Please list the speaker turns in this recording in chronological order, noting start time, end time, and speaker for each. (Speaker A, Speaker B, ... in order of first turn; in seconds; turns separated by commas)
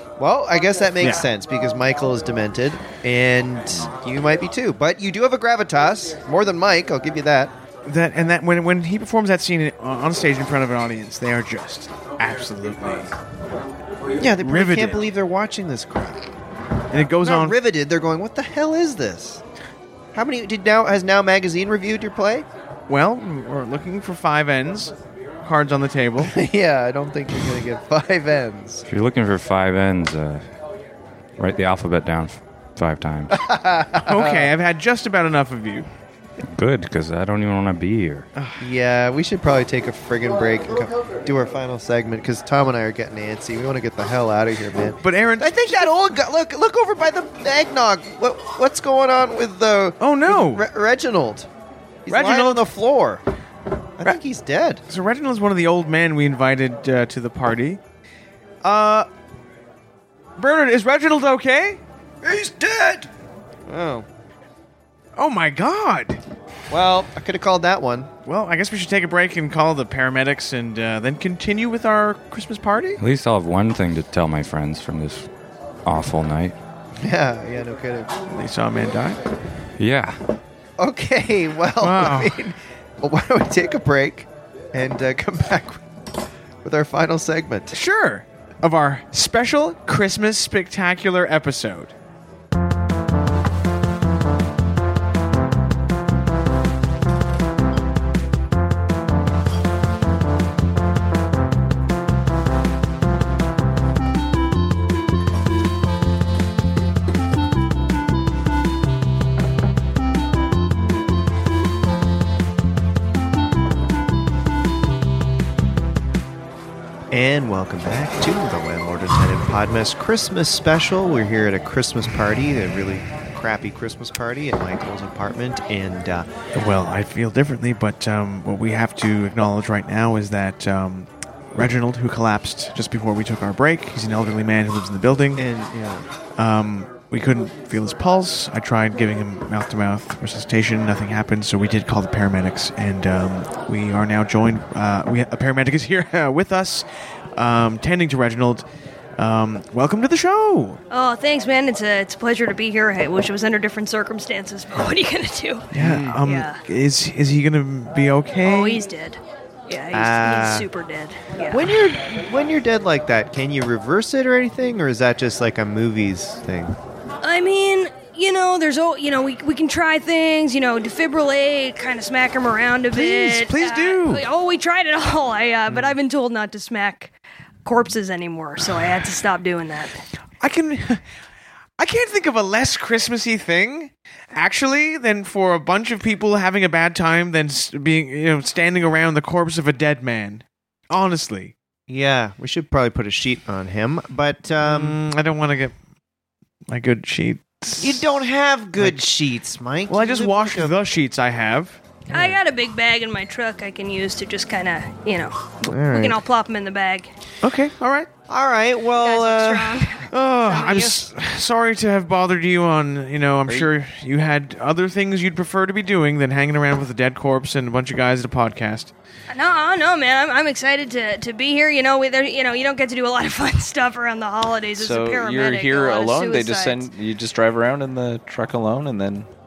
Speaker A: 0.2-7.5, Speaker B: 7.9-13.1, Speaker A: 14.2-16.3, Speaker B: 14.4-15.1, Speaker B: 16.9-17.6, Speaker A: 17.2-19.4, Speaker A: 20.1-22.5, Speaker B: 22.9-26.4, Speaker A: 26.2-28.9, Speaker C: 28.9-30.5, Speaker C: 31.4-33.4, Speaker A: 33.3-34.5, Speaker B: 34.0-35.9, Speaker C: 36.5-38.3, Speaker B: 38.4-38.6, Speaker A: 38.6-51.5, Speaker B: 45.0-45.9, Speaker B: 50.0-50.7, Speaker A: 52.1-53.2, Speaker B: 52.1-52.6, Speaker A: 54.0-54.8, Speaker B: 54.9-57.8, Speaker B: 58.6-59.1, Speaker B: 60.4-61.8, Speaker A: 62.2-63.1, Speaker A: 63.7-64.1, Speaker B: 65.2-66.2, Speaker A: 66.7-68.1, Speaker B: 68.3-73.0, Speaker C: 73.0-75.3, Speaker C: 75.8-76.5, Speaker A: 77.0-78.1, Speaker B: 78.3-79.2, Speaker C: 79.8-80.2, Speaker A: 80.8-85.8, Speaker B: 81.8-82.4, Speaker A: 86.6-87.8, Speaker B: 87.7-91.9, Speaker A: 117.1-126.3, Speaker B: 126.5-135.4, Speaker A: 135.3-136.1, Speaker B: 136.4-146.8, Speaker B: 147.3-148.7, Speaker B: 149.2-150.8, Speaker D: 150.9-155.7, Speaker B: 155.7-158.8, Speaker E: 155.8-156.1, Speaker D: 156.2-156.6, Speaker D: 158.4-161.7, Speaker A: 159.9-160.7, Speaker A: 161.5-166.8, Speaker D: 167.2-177.1, Speaker B: 172.9-174.3, Speaker D: 177.7-180.0, Speaker B: 180.4-181.0, Speaker B: 181.8-191.5, Speaker A: 191.9-195.0, Speaker B: 194.6-195.8, Speaker B: 196.7-198.0, Speaker A: 197.8-200.8, Speaker B: 199.9-202.4, Speaker D: 202.1-207.1, Speaker A: 205.7-206.2, Speaker B: 207.4-208.1, Speaker A: 208.3-209.9, Speaker D: 209.0-211.1, Speaker B: 210.1-218.9, Speaker D: 219.3-226.9, Speaker E: 224.8-229.3